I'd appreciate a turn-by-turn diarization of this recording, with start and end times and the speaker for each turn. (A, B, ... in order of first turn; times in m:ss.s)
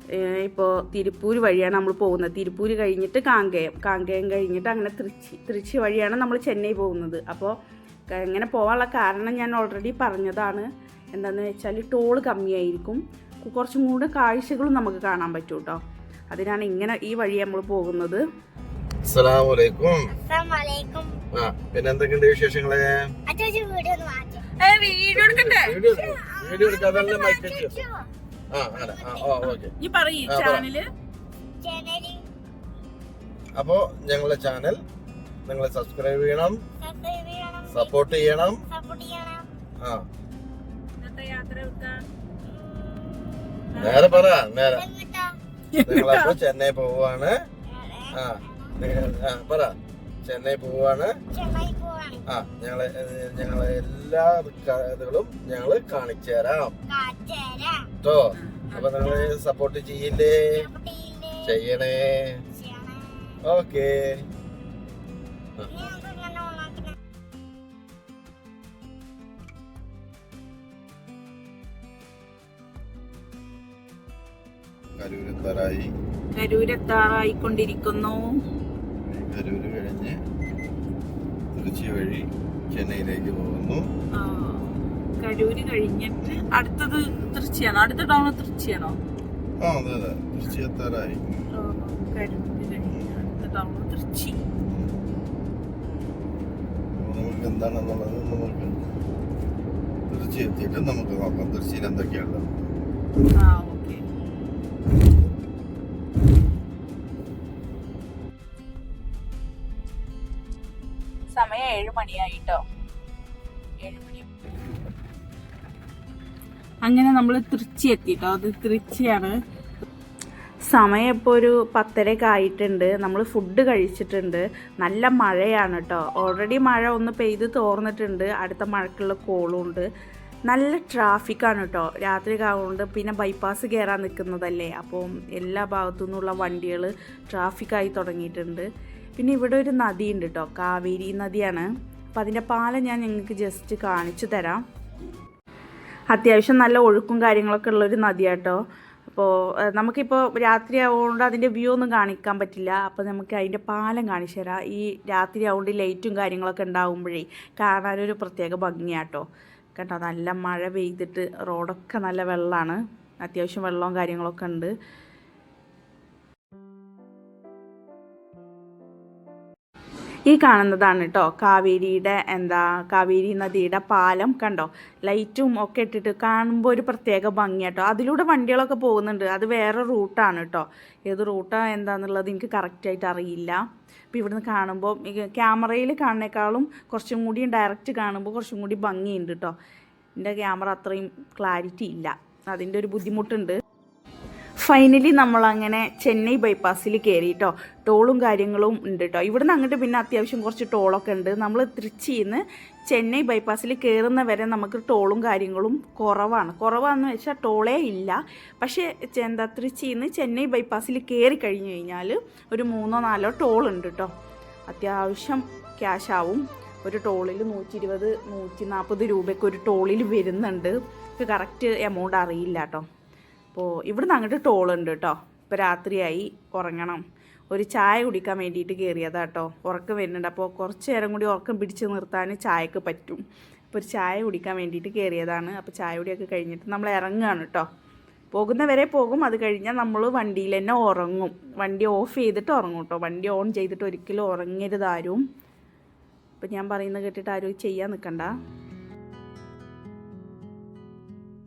0:00.2-0:07.5 A
0:08.1-0:18.2 A
0:19.1-0:20.1 B
0:20.1-0:21.2 C
0:21.3-0:23.0 B
0:23.3-0:24.5 C
0:24.6-0:25.8 A
0:25.1-0:27.9 B
0:25.8-0:28.1 C
0:28.5-0:29.7 B
0:29.0-0:29.4 C
0:29.8-0:30.9 A
0:30.3-0:30.7 B
0:31.6-0:32.2 C
0:33.6-0:34.8 B
0:35.5-0:36.6 B
0:36.8-0:38.1 C
0:37.7-0:38.6 B
0:38.7-0:39.5 C
0:39.8-0:40.1 B
0:41.0-0:42.0 A
0:42.5-0:43.2 C
0:43.7-0:44.3 A
0:43.8-0:44.9 B
0:44.7-0:45.4 C
0:45.7-0:46.4 A
0:45.9-0:47.4 B
0:47.7-0:48.7 C
0:48.1-0:51.2 B
0:51.3-0:52.2 C
0:52.3-0:56.8 B
0:56.9-0:57.9 C
0:58.0-1:00.7 B
0:58.5-0:58.9 A
0:59.0-0:59.3 C
1:00.6-1:01.5 C
1:01.4-1:02.4 B
1:02.6-1:03.4 C
1:03.4-1:04.2 B
1:05.7-1:07.0 C
1:15.0-1:15.9 B
1:16.3-1:18.4 A
1:19.1-1:20.2 B
1:21.5-1:23.8 B
1:24.2-1:29.0 A
1:29.6-1:31.3 B
1:31.6-1:34.4 A
1:37.0-1:38.8 B
1:40.1-1:42.5 B
1:43.4-1:44.0 A
1:51.4-1:52.6 A
1:53.8-1:54.3 A
1:56.8-1:59.4 A
2:00.7-2:09.9 A
2:10.5-2:24.6 A
2:26.1-2:39.2 A
2:39.8-2:44.7 A
2:50.3-3:03.6 A
3:04.1-3:09.5 A
3:10.2-3:13.6 A
3:14.6-3:34.1 A
3:34.7-3:42.8 A
3:43.5-3:57.7 A
3:58.3-4:05.2 A
4:06.4-4:08.3 A